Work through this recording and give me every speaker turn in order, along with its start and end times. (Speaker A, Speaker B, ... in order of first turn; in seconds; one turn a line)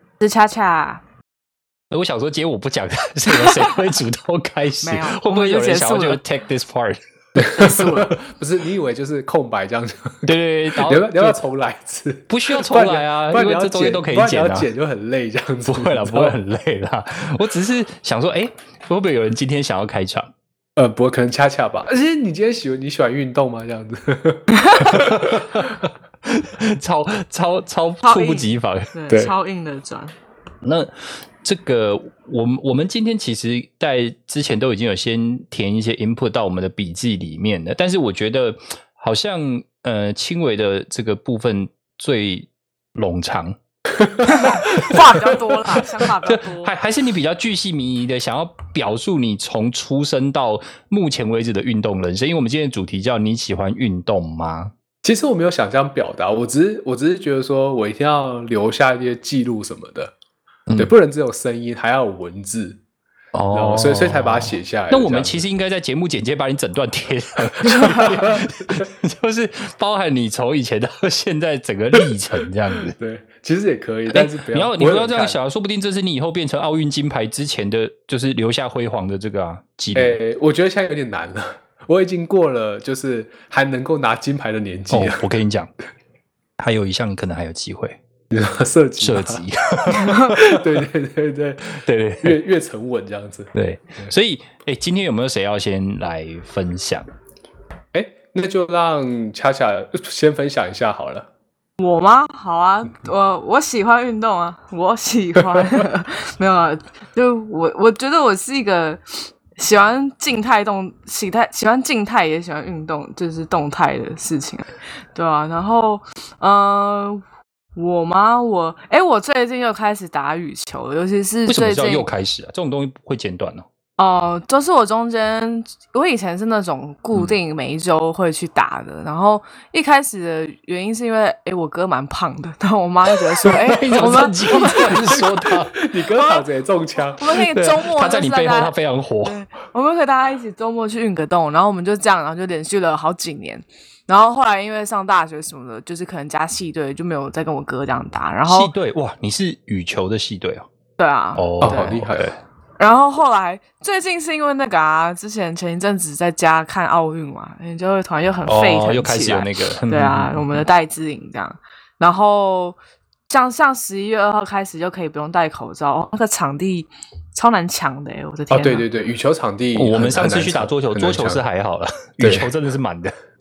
Speaker A: 0.2-1.0
Speaker B: 1.9-7.0
Speaker A: 3.3-3.7
Speaker A: 4.8-6.2
Speaker C: 7.3-16.4
Speaker A: 7.5-8.2
Speaker B: 10.2-11.4
Speaker B: 12.3-14.7
Speaker B: 15.7-20.3
Speaker C: 20.8-25.8
Speaker A: 24.5-25.0
Speaker B: 25.0-25.7
Speaker B: 26.2-28.9
Speaker A: 28.0-30.1
Speaker B: 30.6-30.9
Speaker B: 31.4-43.6
Speaker C: 44.0-45.0
Speaker A: 44.2-46.7
Speaker B: 46.2-54.7
Speaker C: 55.0-60.1
Speaker B: 60.7-60.9
Speaker C: 60.8-62.8
Speaker B: 63.3-72.9
Speaker C: 63.5-65.5
Speaker C: 67.7-68.8
Speaker C: 72.8-75.4
Speaker B: 74.1-80.2
Speaker C: 79.9-85.2
Speaker B: 84.9-85.7
Speaker B: 86.6-88.0
Speaker C: 88.3-89.4
Speaker B: 89.0-90.6
Speaker A: 89.9-90.3
Speaker C: 90.0-94.1
Speaker B: 91.8-92.4
Speaker B: 93.5-97.1
Speaker C: 97.9-101.3
Speaker A: 101.8-117.2
Speaker A: 117.8-122.1
Speaker B: 121.5-123.7
Speaker A: 124.0-135.2
Speaker B: 133.4-135.7
Speaker C: 134.8-137.5
Speaker A: 136.1-136.4
Speaker A: 137.1-148.7
Speaker B: 137.5-139.4
Speaker B: 148.4-150.7
Speaker A: 151.0-152.1
Speaker B: 151.3-152.3
Speaker C: 151.6-152.3
Speaker A: 152.8-162.8
Speaker B: 158.5-160.6
Speaker A: 163.3-168.8
Speaker C: 168.5-171.4
Speaker B: 169.8-173.1
Speaker C: 172.2-172.5